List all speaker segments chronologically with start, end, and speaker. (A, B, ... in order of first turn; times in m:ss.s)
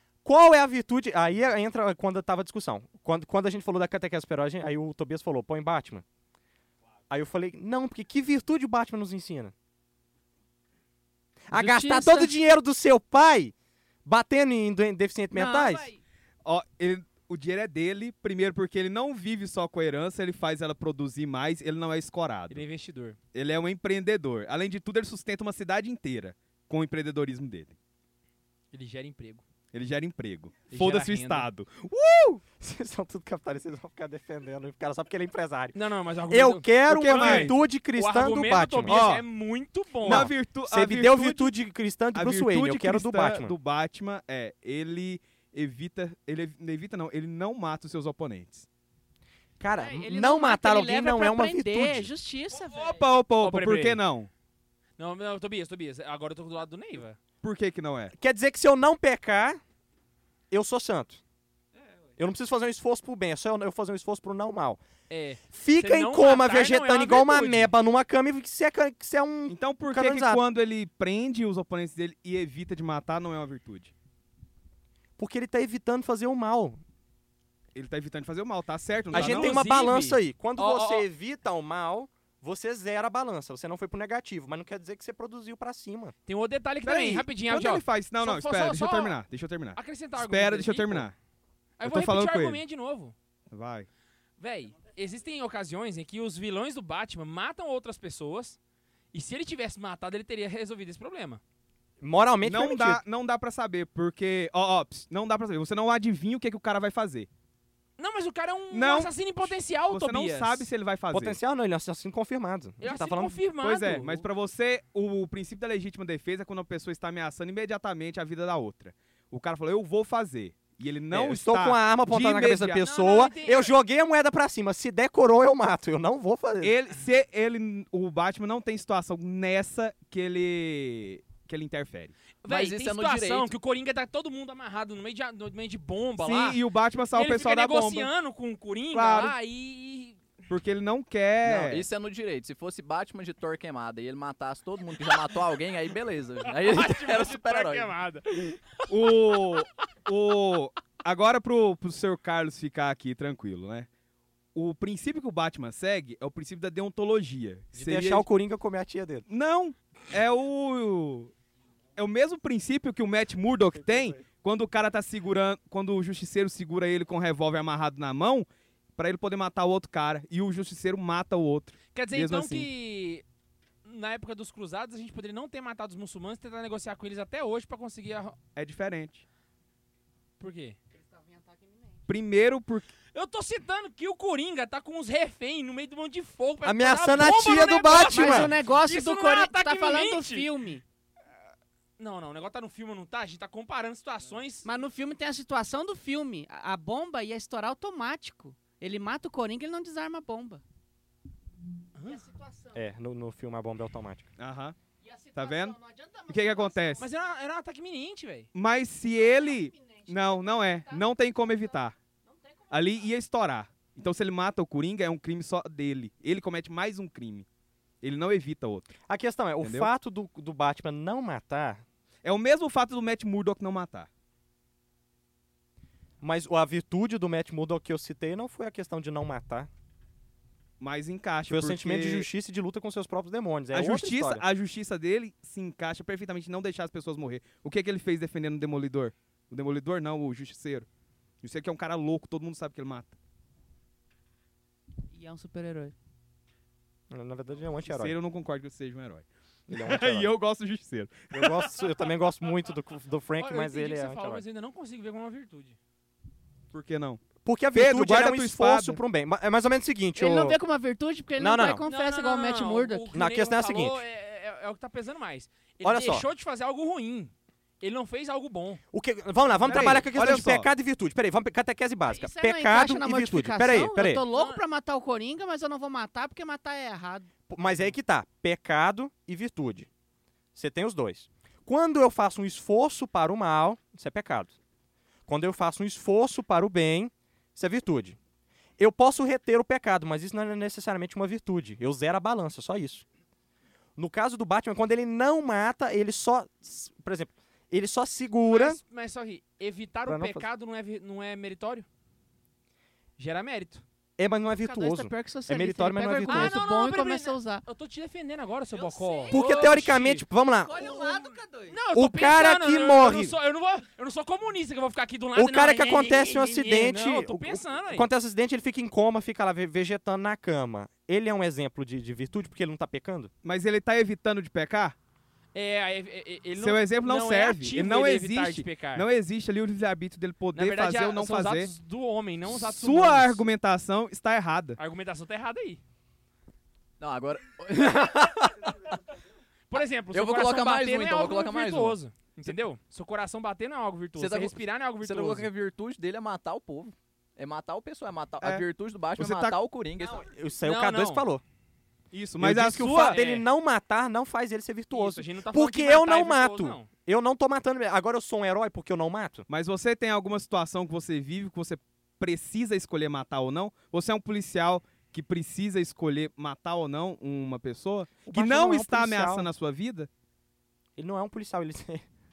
0:00.2-0:06.0 A
0:07.1-0:09.5 A
0:11.5-0:13.5 A
0:11.5-0:12.3 B
0:14.0-0:15.9 A
0:15.3-0:16.0 B
0:16.4-0:22.6 C
0:22.5-0:23.2 D
0:23.3-0:27.8 C
0:28.7-0:29.4 D
0:29.7-0:32.4 C
0:30.7-0:31.5 D
0:32.6-0:35.8 A
0:35.7-0:40.3 D
0:36.3-0:39.0 A
0:36.9-0:37.5 C
0:38.9-0:39.2 C
0:40.0-0:41.5 C
0:40.0-0:43.5 A
0:42.1-0:48.7 C
0:49.6-0:52.1 A
0:49.8-0:53.0 B
0:52.6-0:54.3 C
0:53.4-0:54.0 D
0:55.0-0:57.2 D
0:57.4-0:58.1 C
0:58.2-0:59.6 A
1:00.5-1:01.2 A
1:02.2-1:04.8 A
1:05.1-1:07.7 D
1:05.5-1:10.4 A
1:09.5-1:13.9 C
1:15.2-1:16.8 A
1:17.7-1:19.6 C
1:19.1-1:21.0 D
1:19.1-1:26.1 A
1:26.3-1:29.2 D
1:26.8-1:31.1 C
1:29.8-1:31.1 D
1:31.8-1:33.1 D
1:31.8-1:32.6 C
1:33.5-1:33.9 C
1:34.4-1:38.6 D
1:39.1-1:41.4 D
1:42.0-1:43.0 A
1:42.4-1:47.3 C
1:48.0-1:50.7 D
1:48.7-1:51.4 C
1:51.1-1:53.4 A
1:52.8-1:54.2 D
1:53.6-2:02.8 C
2:01.1-2:06.7 A
2:02.8-2:03.7 D
2:06.6-2:12.2 C
2:12.4-2:16.6 D
2:12.5-2:13.5 E
2:16.2-2:18.1 C
2:17.1-2:20.2 D
2:18.9-2:19.3 C
2:20.5-2:21.8 C
2:21.4-2:27.9 E
2:26.4-2:28.9 D
2:28.9-2:33.9 C
2:34.5-2:38.2 C
2:37.7-2:39.2 A
2:39.3-2:41.3 C
2:42.0-2:52.7 C
2:43.7-2:44.2 A
2:51.9-2:53.2 D
2:53.8-2:58.4 D
2:58.5-2:59.2 C
3:00.4-3:00.8 D
3:01.1-3:01.9 B
3:02.1-3:02.9 C
3:03.1-3:10.5 D
3:06.6-3:08.5 A
3:07.9-3:10.8 B
3:12.0-3:14.6 D
3:14.6-3:20.6 B
3:22.0-3:22.2 D
3:22.1-3:22.7 B
3:22.7-3:24.3 A
3:24.4-3:24.8 C
3:25.0-3:27.0 B
3:25.3-3:25.8 C
3:26.3-3:27.0 C
3:27.0-3:28.5 D
3:28.5-3:31.9 C
3:29.7-3:30.8 B
3:32.7-3:37.4 C
3:38.0-3:38.9 C
3:39.1-3:41.8 A
3:39.6-3:39.9 C
3:42.2-3:44.1 C
3:46.2-3:49.7 A
3:50.8-3:52.3 C
3:51.5-3:54.4 A
3:53.7-4:00.9 C
4:01.4-4:03.2 C
4:05.1-4:05.9 B
4:07.1-4:08.1 A
4:07.8-4:11.9 C
4:09.7-4:10.3 A
4:11.3-4:14.4 A
4:13.4-4:15.8 D
4:16.7-4:17.2 C
4:17.4-4:20.6 A
4:17.7-4:19.0 C
4:20.2-4:23.1 B
4:21.4-4:21.8 A
4:21.8-4:28.8 D
4:23.1-4:24.0 A
4:25.8-4:26.3 A
4:28.9-4:34.2 A
4:29.6-4:30.7 C
4:29.7-4:30.0 D
4:32.1-4:37.3 B
4:34.3-4:34.6 D
4:37.5-4:39.9 A
4:40.5-4:44.5 A
4:45.3-4:48.2 A
4:48.8-4:53.0 A
4:54.0-4:58.8 A
4:58.4-5:01.9 D
5:00.1-5:00.4 A
5:03.2-5:03.8 D
5:04.2-5:06.6 A
5:04.6-5:07.6 B
5:06.3-5:10.2 D
5:08.7-5:09.7 B
5:09.3-5:11.0 A
5:10.6-5:11.8 B
5:11.7-5:18.1 D
5:11.9-5:13.3 A
5:15.3-5:23.3 A
5:23.4-5:25.0 C
5:25.5-5:29.0 D
5:26.6-5:31.7 C
5:30.5-5:33.5 D
5:32.5-5:34.8 C
5:34.8-5:35.8 D
5:37.0-5:38.9 E
5:39.7-5:45.5 D
5:40.1-5:42.0 E
5:44.2-5:50.2 E
5:48.4-5:48.6 C
5:49.2-5:49.6 C
5:50.0-5:51.4 A
5:50.6-5:51.2 D
5:52.1-5:53.2 C
5:52.4-5:59.4 A
5:52.8-5:53.4 D
5:54.9-5:56.9 D
5:59.5-6:10.1 C
6:08.2-6:09.5 A
6:11.0-6:12.0 A